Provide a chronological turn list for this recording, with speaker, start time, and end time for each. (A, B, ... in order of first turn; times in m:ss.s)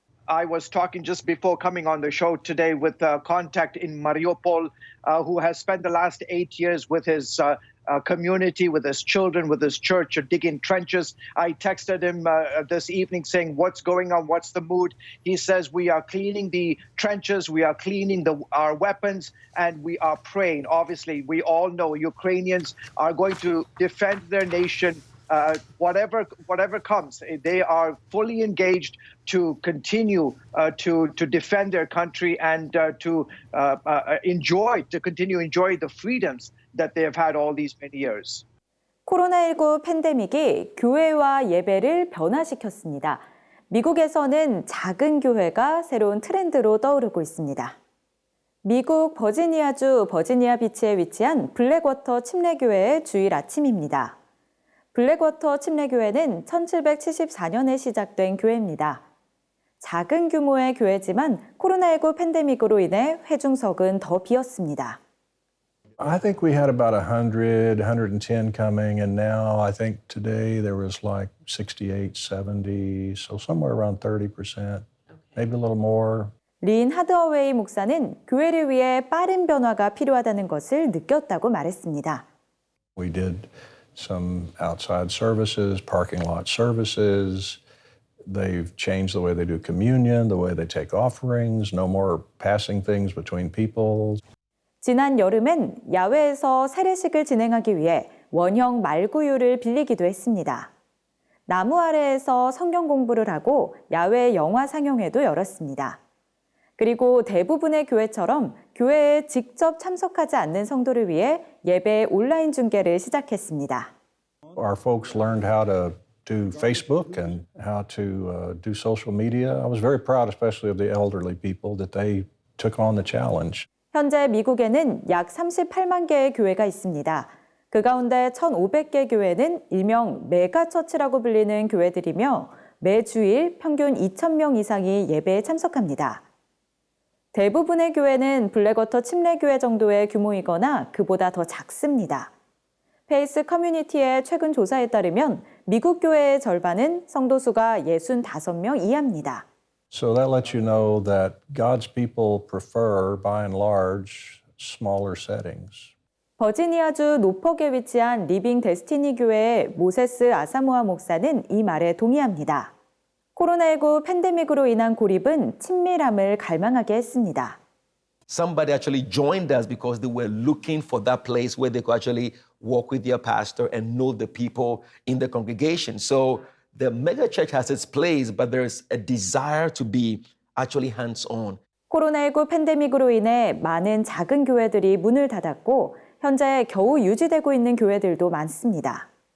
0:00.3-0:38.4 A
0:39.0-0:47.8 B
0:48.6-0:54.2 B
0:54.9-0:59.0 B
0:59.8-1:05.0 B
1:06.0-1:16.3 C
1:16.6-1:22.2 B
1:23.0-1:27.6 C
1:28.2-1:34.2 C
1:34.8-1:40.7 B
1:41.5-1:46.0 B
1:46.8-1:53.9 B
1:54.6-2:03.7 C
2:03.9-2:16.2 B
2:17.3-2:22.3 B
2:23.1-2:29.4 B
2:29.9-2:35.9 C
2:36.4-2:42.7 B
2:43.4-2:47.6 B
2:48.3-3:01.6 D
3:01.9-3:09.1 B